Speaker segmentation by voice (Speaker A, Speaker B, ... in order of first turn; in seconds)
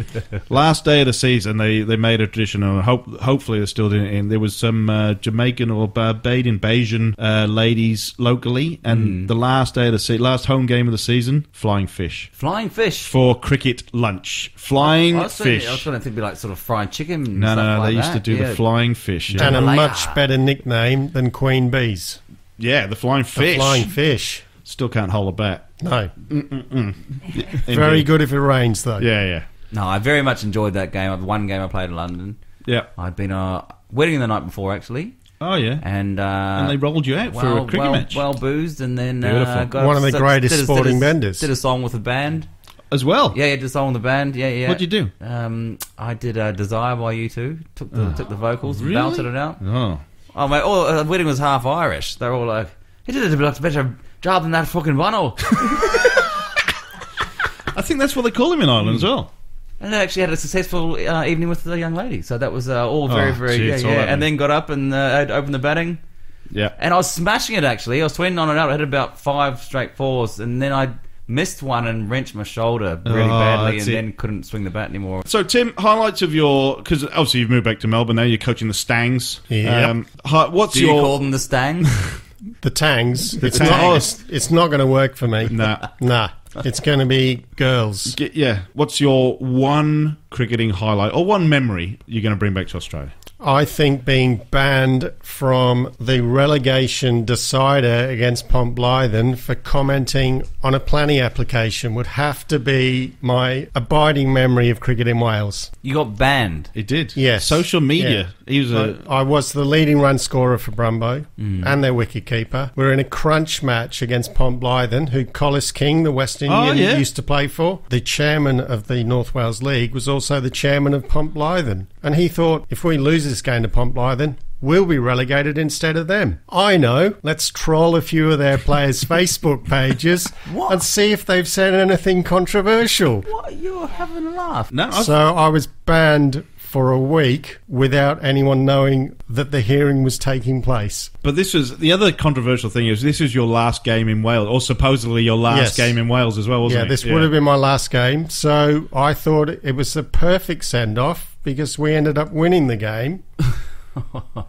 Speaker A: 0.5-12.3, 13.1-15.8, 17.3-19.7, 22.6-23.9, 24.6-25.7, 26.3-28.1, 29.0-29.5, 35.4-35.8, 36.5-38.2, 39.2-39.7, 42.9-43.4, 44.6-45.1, 47.9-50.0, 55.6-56.0, 57.7-59.3, 63.1-64.2, 66.5-66.7, 73.0-74.0, 75.2-81.2, 81.8-82.1, 83.4-84.1, 85.5-85.8, 88.0-93.1, 106.7-109.0, 116.5-117.1, 134.7-135.2, 141.2-147.3
Speaker B: 8.9-9.3, 12.4-13.1, 14.8-18.6, 19.3-20.2, 29.7-32.4, 33.0-35.1, 35.8-42.5, 43.3-49.6, 50.3-55.5, 59.8-66.0, 66.8-75.2, 80.7-81.9, 83.6-83.9, 105.8-106.7, 111.4-111.8, 130.4-130.8, 133.2-134.7
Speaker C: 19.4-22.2, 23.3-24.5, 25.8-26.1, 27.6-29.1, 39.7-41.5, 79.5-79.9, 82.6-88.2, 93.4-105.7, 107.1-133.3, 134.9-141.1, 145.5-145.9, 146.6-153.2